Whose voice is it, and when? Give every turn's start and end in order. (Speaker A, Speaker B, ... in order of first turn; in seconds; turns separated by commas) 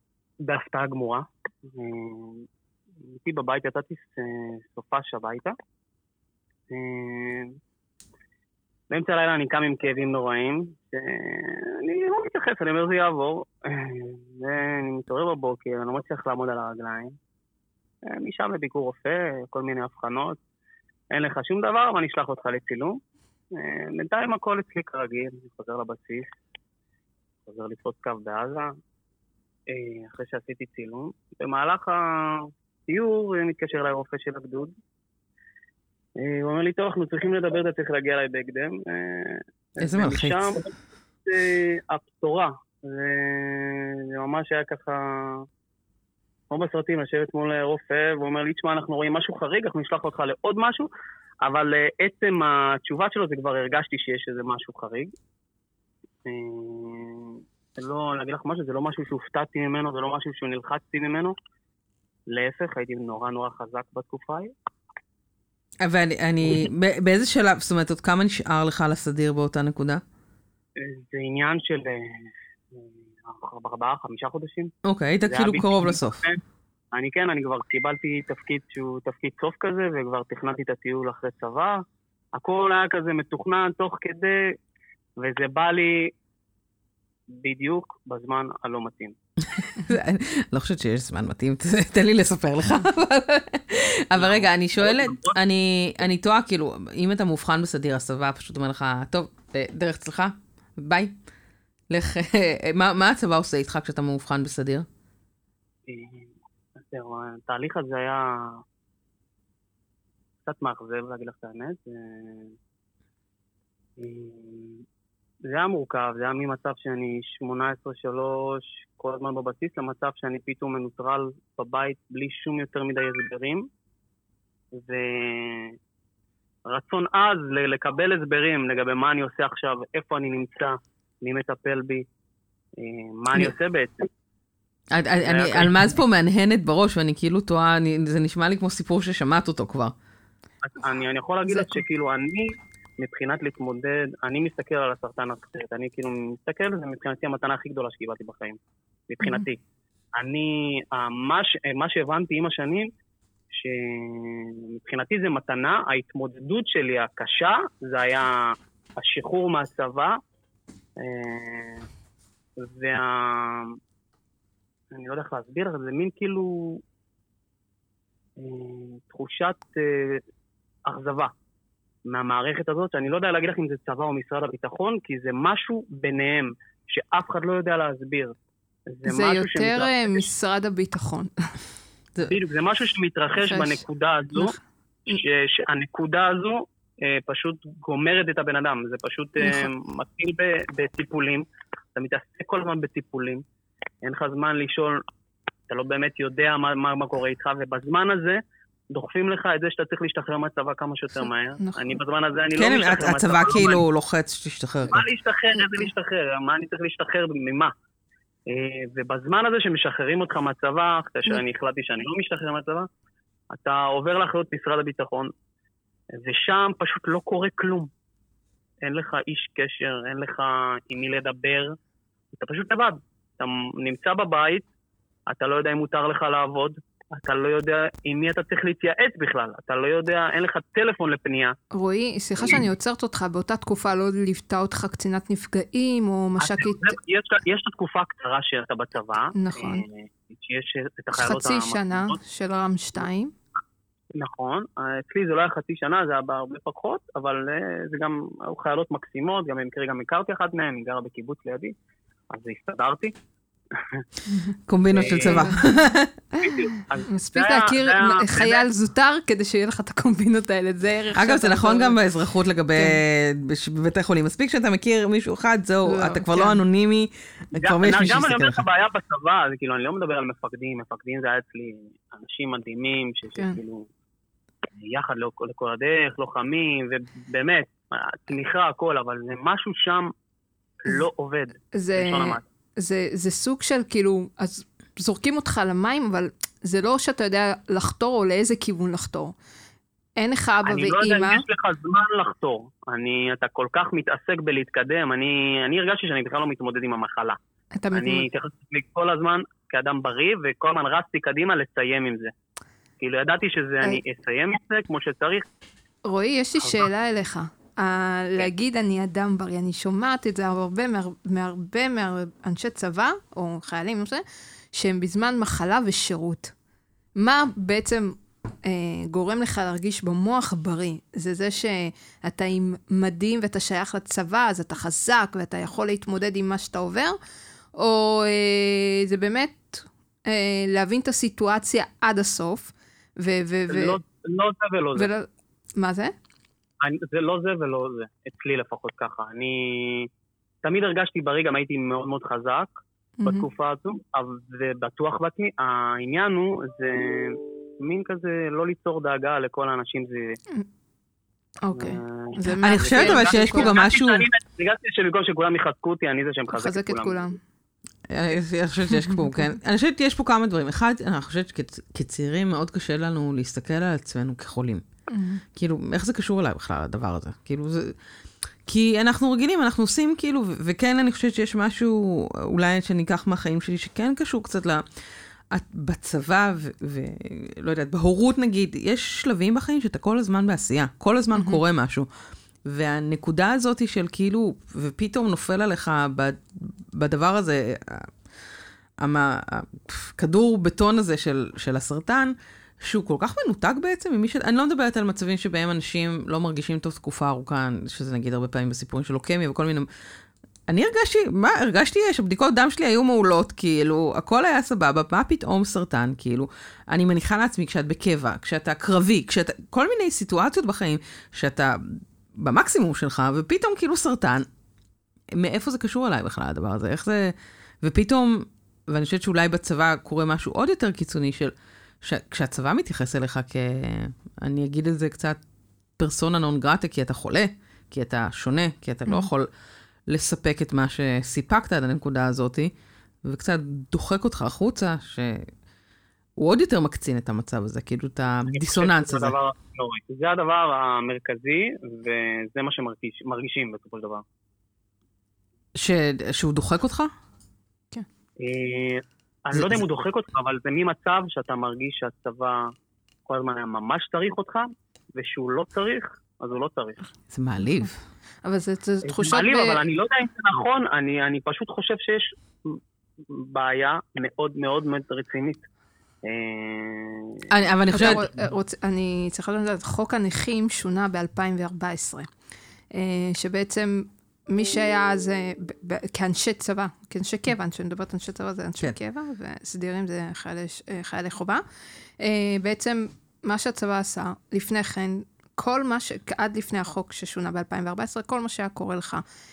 Speaker A: 0.4-2.4, Speaker A: 3.1-5.5, Speaker A: 6.7-7.5, Speaker A: 8.9-17.1, Speaker A: 18.1-20.4, Speaker A: 21.1-23.0, Speaker A: 23.5-26.3, Speaker A: 27.5-28.7, Speaker A: 29.7-34.7, Speaker A: 36.2-40.7, Speaker B: 39.8-40.5, Speaker A: 41.2-45.5, Speaker A: 46.5-50.9, Speaker A: 51.4-55.1, Speaker A: 56.2-61.3, Speaker A: 62.3-64.5, Speaker B: 65.8-70.0, Speaker A: 70.8-74.7, Speaker B: 74.8-76.2, Speaker A: 75.3-76.4, Speaker A: 76.9-81.8, Speaker A: 82.3-84.5, Speaker A: 85.2-86.1, Speaker A: 87.3-89.1, Speaker B: 89.5-101.1, Speaker A: 94.2-95.3, Speaker B: 101.9-104.9, Speaker A: 105.9-108.6, Speaker A: 110.4-112.5, Speaker A: 114.0-114.8, Speaker A: 115.5-123.7, Speaker A: 124.7-125.8, Speaker A: 126.7-132.1, Speaker A: 132.8-134.1, Speaker B: 134.9-139.9, Speaker A: 135.2-135.8, Speaker A: 140.6-148.6, Speaker C: 141.5-141.8, Speaker A: 149.1-149.6, Speaker A: 150.1-152.9, Speaker A: 153.5-160.2, Speaker A: 161.0-161.8, Speaker A: 162.6-163.8, Speaker A: 164.9-166.8, Speaker A: 168.4-170.2, Speaker A: 170.8-171.3, Speaker A: 172.1-178.3, Speaker A: 178.9-180.2, Speaker C: 179.1-181.5, Speaker A: 182.3-184.5, Speaker C: 183.4-183.8, Speaker C: 184.3-184.6, Speaker A: 185.1-193.4, Speaker C: 189.4-189.7, Speaker A: 194.0-195.0, Speaker A: 195.7-198.4, Speaker A: 198.9-203.8, Speaker C: 201.6-202.0, Speaker B: 202.5-205.1, Speaker A: 204.9-207.7, Speaker A: 208.5-212.9, Speaker A: 213.5-215.3, Speaker A: 216.2-217.9, Speaker A: 218.8-221.7, Speaker A: 222.3-224.7, Speaker A: 225.3-231.6, Speaker C: 231.7-237.0, Speaker A: 236.4-242.2, Speaker C: 239.3-239.8, Speaker C: 241.1-243.3, Speaker A: 244.1-251.7, Speaker A: 252.3-253.1, Speaker A: 253.7-254.0, Speaker C: 254.3-254.5, Speaker B: 254.7-256.1, Speaker A: 254.9-255.6, Speaker C: 255.1-255.7, Speaker A: 256.4-258.6, Speaker C: 257.1-262.0, Speaker B: 261.1-268.6, Speaker C: 265.8-266.6, Speaker A: 267.6-273.9, Speaker A: 274.7-280.1, Speaker A: 280.8-282.4, Speaker C: 281.7-289.3, Speaker C: 290.2-291.4, Speaker A: 290.6-297.4, Speaker C: 297.8-298.2, Speaker A: 297.9-302.3, Speaker A: 303.0-305.4, Speaker C: 306.1-316.5, Speaker C: 317.2-327.2, Speaker C: 327.8-334.0, Speaker A: 333.7-335.1, Speaker C: 334.9-336.1, Speaker A: 336.8-340.1, Speaker A: 340.6-342.7, Speaker C: 343.2-343.5, Speaker A: 343.2-350.4, Speaker C: 351.6-353.7, Speaker A: 351.7-357.1, Speaker B: 352.6-354.2, Speaker C: 356.5-357.4, Speaker B: 358.1-364.8, Speaker C: 358.9-359.4, Speaker C: 365.1-365.4, Speaker B: 365.5-368.0, Speaker B: 368.6-374.8, Speaker B: 375.5-382.1, Speaker C: 381.3-381.6, Speaker B: 382.6-388.1, Speaker B: 389.0-399.9, Speaker B: 400.7-414.5, Speaker B: 415.3-425.4, Speaker B: 426.0-429.5, Speaker B: 430.1-432.7, Speaker B: 433.2-435.5, Speaker B: 436.4-439.3, Speaker A: 438.5-444.2, Speaker B: 445.7-447.1, Speaker A: 448.4-452.7, Speaker B: 449.5-449.8, Speaker A: 453.3-457.0, Speaker B: 457.3-458.0, Speaker C: 458.4-459.8, Speaker A: 459.0-465.6, Speaker A: 466.2-467.4, Speaker B: 467.5-468.3, Speaker C: 467.9-472.3, Speaker C: 472.9-481.6, Speaker C: 482.2-489.2